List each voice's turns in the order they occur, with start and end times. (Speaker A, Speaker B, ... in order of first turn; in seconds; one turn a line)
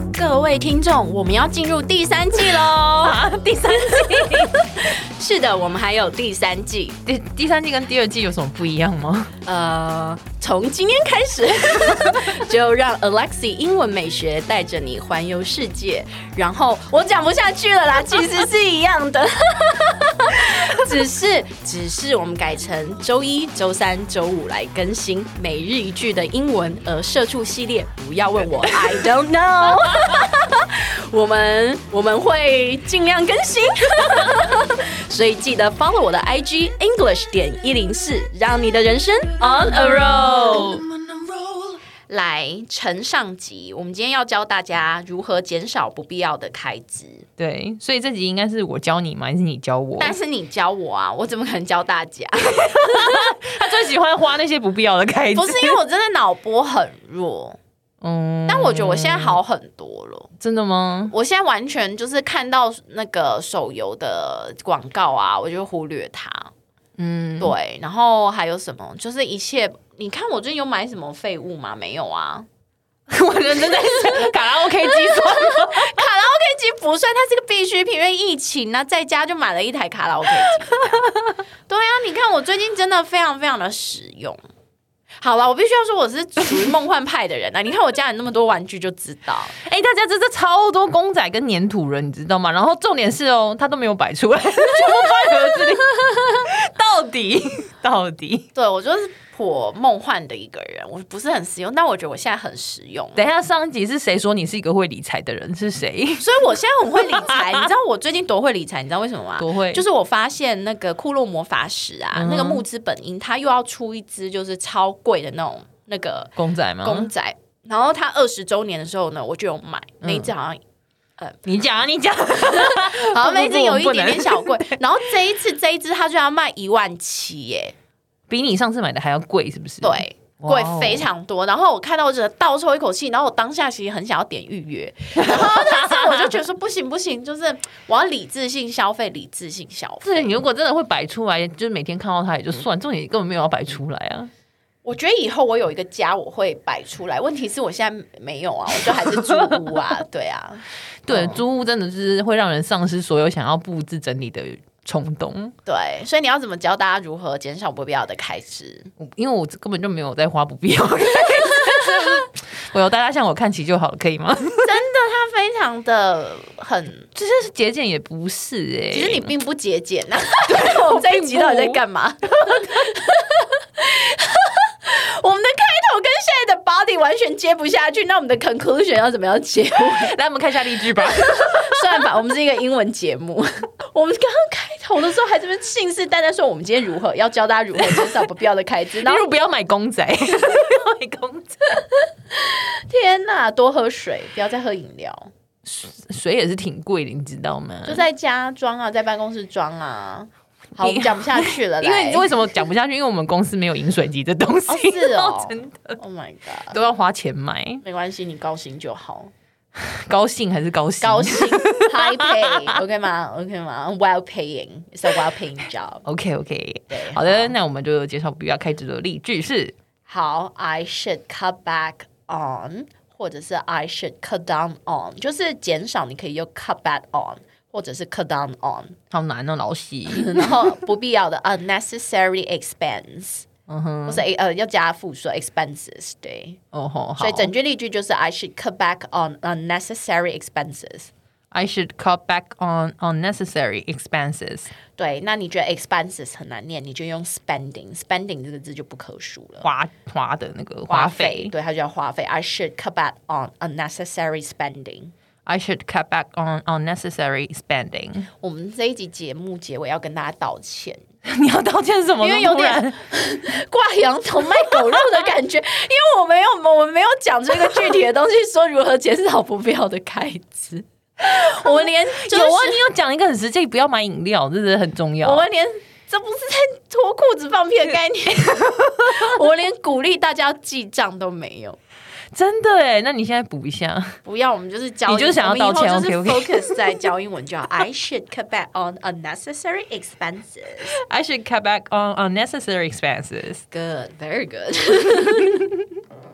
Speaker A: 0.1-3.3
Speaker B: 2.6-4.8
Speaker A: 4.2-7.0
Speaker B: 7.1-9.3
Speaker A: 9.4-40.6
Speaker B: 39.4-40.9
Speaker A: 42.1-47.3
Speaker B: 47.4-50.1
Speaker A: 50.0-53.4
Speaker B: 52.6-55.8
Speaker A: 55.3-57.6
Speaker B: 58.0-59.4
Speaker A: 58.5-60.3
Speaker B: 60.4-61.1
Speaker A: 61.1-66.5
Speaker B: 67.0-67.5
Speaker A: 67.4-72.5
Speaker B: 73.1-75.9
Speaker A: 74.0-74.3
Speaker A: 74.8-81.1
Speaker B: 80.8-81.3
Speaker A: 81.7-84.4
Speaker A: 85.2-89.6
Speaker B: 89.6-98.5
Speaker A: 95.0-95.6
Speaker A: 98.5-103.2
Speaker B: 103.2-106.5
Speaker A: 106.2-120.6
Speaker B: 107.0-107.7
Speaker B: 109.4-109.8
Speaker B: 112.1-112.6
Speaker B: 116.4-117.1
Speaker B: 120.0-120.3
Speaker A: 121.2-121.6
Speaker B: 121.5-125.0
Speaker A: 122.4-127.7
Speaker B: 128.3-131.1
Speaker A: 129.8-140.4
Speaker B: 135.2-136.3
Speaker B: 140.0-144.3
Speaker A: 144.8-151.4
Speaker B: 148.8-149.6
Speaker B: 151.1-155.5
Speaker A: 155.7-158.9
Speaker B: 159.0-164.8
Speaker A: 164.6-167.1
Speaker B: 167.2-169.3
Speaker A: 168.9-180.1
Speaker B: 170.4-171.8
Speaker B: 179.8-182.0
Speaker A: 181.1-189.3
Speaker B: 187.9-188.1
Speaker B: 189.0-191.8
Speaker A: 192.3-195.3
Speaker B: 195.6-198.1
Speaker A: 197.9-202.3
Speaker B: 200.8-206.0
Speaker A: 204.7-206.8
Speaker B: 206.7-207.8
Speaker A: 207.8-209.3
Speaker B: 209.8-212.7
Speaker A: 211.0-216.0
Speaker B: 216.1-219.8
Speaker A: 216.9-217.5
Speaker A: 220.1-229.0
Speaker B: 229.1-230.6
Speaker A: 230.1-233.5
Speaker B: 233.7-234.2
Speaker A: 234.1-236.6
Speaker B: 236.7-237.5
Speaker A: 237.2-241.1
Speaker B: 241.5-244.7
Speaker A: 245.0-249.7
Speaker B: 249.6-251.5
Speaker A: 250.9-255.1
Speaker B: 255.5-258.3
Speaker A: 258.4-261.0
Speaker B: 261.3-263.0
Speaker A: 262.2-272.8
Speaker B: 271.6-275.4
Speaker A: 275.2-281.8
Speaker B: 282.3-284.2
Speaker A: 284.2-291.0
Speaker B: 285.1-286.8
Speaker B: 290.9-293.6
Speaker A: 293.7-295.7